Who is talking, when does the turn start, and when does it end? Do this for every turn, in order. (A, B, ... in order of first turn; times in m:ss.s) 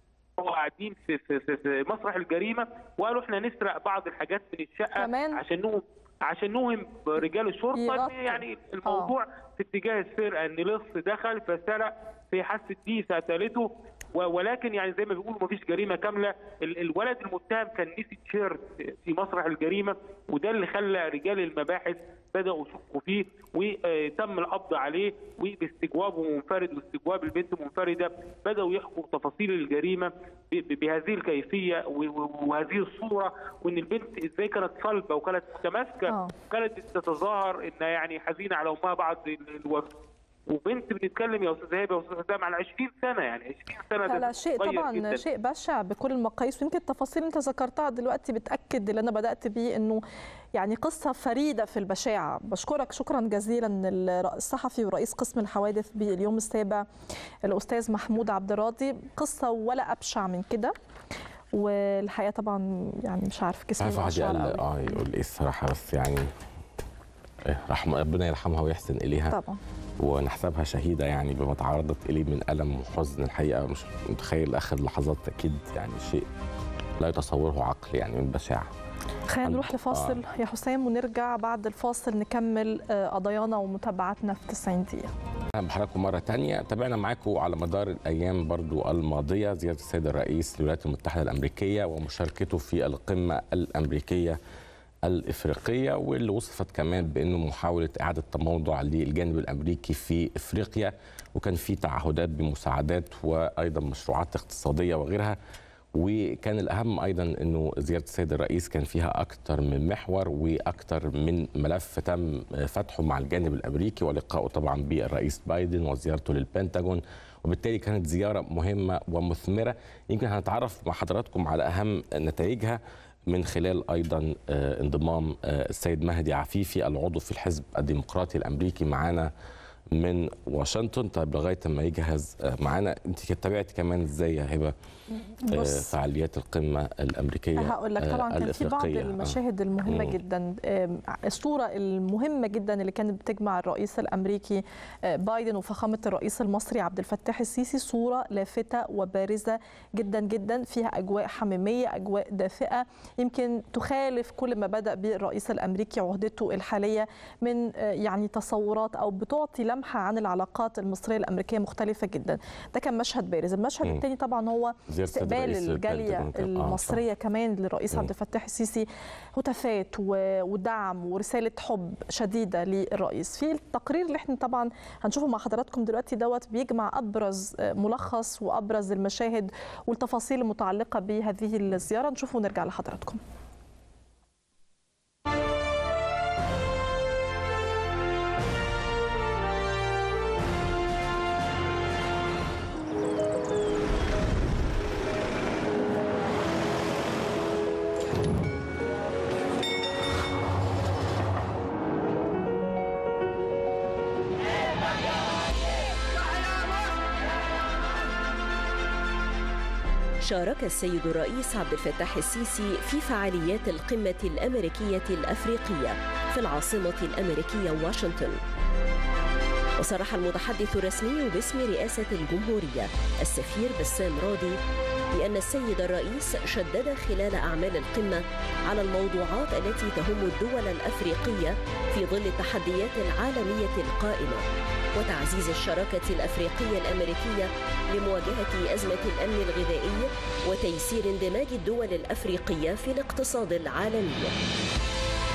0:00.4-0:39.9 A
0:04.9-0:05.4 B
0:07.7-0:09.1 B
0:36.1-0:36.3 B
0:40.5-0:45.2 A
0:44.0-0:50.0 B
0:50.5-0:56.8 B
0:57.4-1:00.7 B
1:01.5-1:04.6 B
1:03.8-1:06.3 C
1:07.4-1:09.4 C
1:09.3-1:09.6 B
1:10.0-1:16.2 C
1:17.0-1:18.7 C
1:19.3-1:25.1 B
1:19.4-1:20.2 C
1:25.5-1:34.4 C
1:35.0-1:45.4 C
1:46.0-2:09.3 C
2:09.9-2:14.7 C
2:15.4-2:15.9 B
2:15.5-2:20.2 C
2:17.6-3:03.2 B
2:44.9-2:47.0 C
3:30.2-3:38.4 D
3:39.8-3:44.6 D
3:45.1-3:54.4 D
3:55.0-4:04.4 D